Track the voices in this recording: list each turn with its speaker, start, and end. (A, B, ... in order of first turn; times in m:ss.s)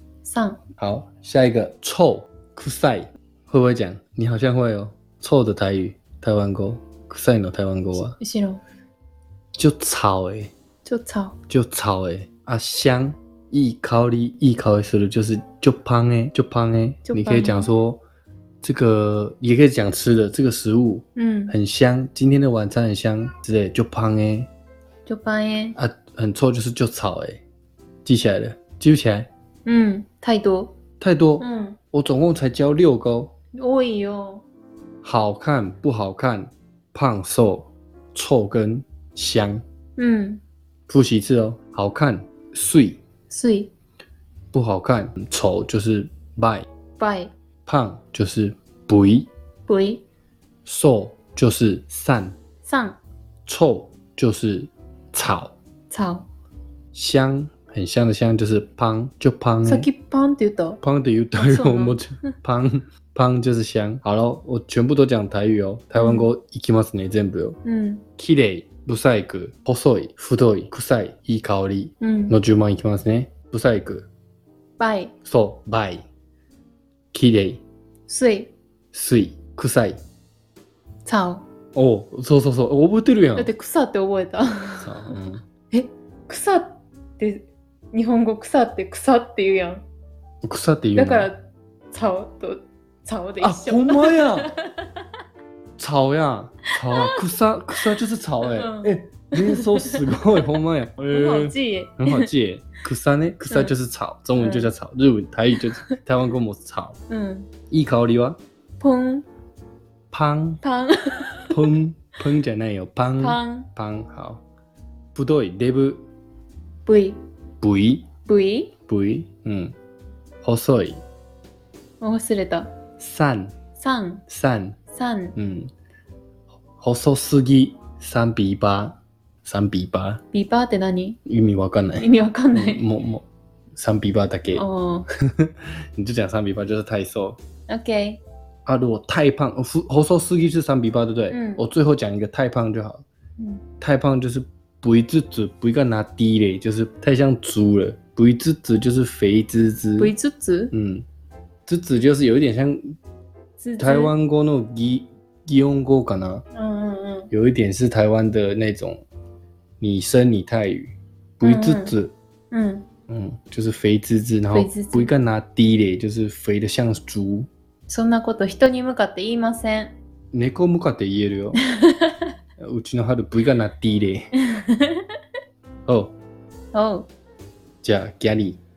0:00.2-0:00.6 A
0:00.8-0:08.2 B
0:08.0-0:08.6 A
0:09.6-0:10.5 B
0:10.8-0:11.4 A
0:11.5-0:18.0 B
0:17.0-0:17.7 A
0:18.6-0:24.5 B
0:21.2-0:21.6 A
0:25.1-0:25.8 A
0:25.8-0:27.4 B
0:28.0-0:29.3 B
0:29.7-0:30.7 A
0:31.0-0:33.3 B
0:31.4-0:31.8 A
0:33.6-0:34.4 A
0:35.0-0:39.6 B
0:40.0-0:40.4 A
0:40.9-0:43.0 B
0:43.3-0:43.7 A
0:44.5-0:46.7 B
0:47.0-0:47.3 A
0:47.7-0:49.3 B
0:49.7-0:50.0 A
0:50.6-0:52.4 B
0:52.6-0:53.0 A
0:53.5-0:55.5 B
0:55.9-0:56.3 A
0:56.9-0:59.9 B
0:59.6-1:00.8 A
1:00.8-1:07.6 B
1:01.3-1:02.3 A
1:06.0-1:06.3 A
1:07.6-1:08.0 A
1:08.2-1:14.1 B
1:12.0-1:12.4 A
1:14.8-1:15.1 A
1:15.2-1:16.0 B
1:17.1-1:17.6 B
1:18.1-1:18.5 A
1:18.9-1:20.0 B
1:21.0-1:21.4 A
1:21.8-1:23.5 B
1:23.4-1:25.2 A
1:24.8-1:25.4 B
1:25.7-1:29.8 A
1:30.4-1:31.3 B
1:31.0-1:34.9 A
1:33.4-1:34.5 B
1:35.8-1:47.0 B
1:36.8-1:37.2 A
1:38.4-1:40.4 A
1:41.1-1:42.3 A
1:44.4-1:44.7 A
1:47.1-1:47.5 A
1:47.7-1:48.4 B
1:48.8-1:49.3 A
1:50.1-1:50.6 B
1:50.6-1:51.6 A
1:51.5-1:54.4 B
1:53.2-1:53.7 A
1:55.2-1:56.0 B
1:56.9-1:57.2 A
1:57.6-1:58.1 B
1:58.2-1:58.7 A
1:58.9-1:59.7 B
2:00.4-2:01.0 B
2:02.0-2:02.7 A
2:03.0-2:03.6 B
2:03.8-2:04.2 A
2:04.3-2:04.8 B
2:04.9-2:05.4 A
2:05.4-2:05.7 B
2:06.8-2:10.2 B
2:10.3-2:11.2 A
2:11.3-2:13.2 B
2:12.0-2:12.8 A
2:13.8-2:14.6 B
2:14.5-2:15.1 A
2:15.2-2:17.4 B
2:17.7-2:18.2 A
2:18.7-2:23.0 B
2:21.3-2:21.6 A
2:23.8-2:30.1 B
2:30.0-2:30.7 A
2:30.7-2:31.0 B
2:31.7-2:33.0 B
2:33.6-2:34.1 A
2:33.8-2:36.4 B
2:36.5-2:37.3 A
2:37.3-2:39.0 B
2:39.8-2:42.1 B
2:41.4-2:42.0 A
2:42.5-2:42.8 A
2:43.1-2:47.5 B
2:44.5-2:45.1 A
2:47.9-2:50.0 A
2:50.3-2:51.6 B
2:51.6-2:52.3 A
2:52.6-2:54.3 B
2:54.4-2:55.1 A
2:55.9-2:56.2 B
2:56.7-2:57.1 A
2:57.8-2:58.6 B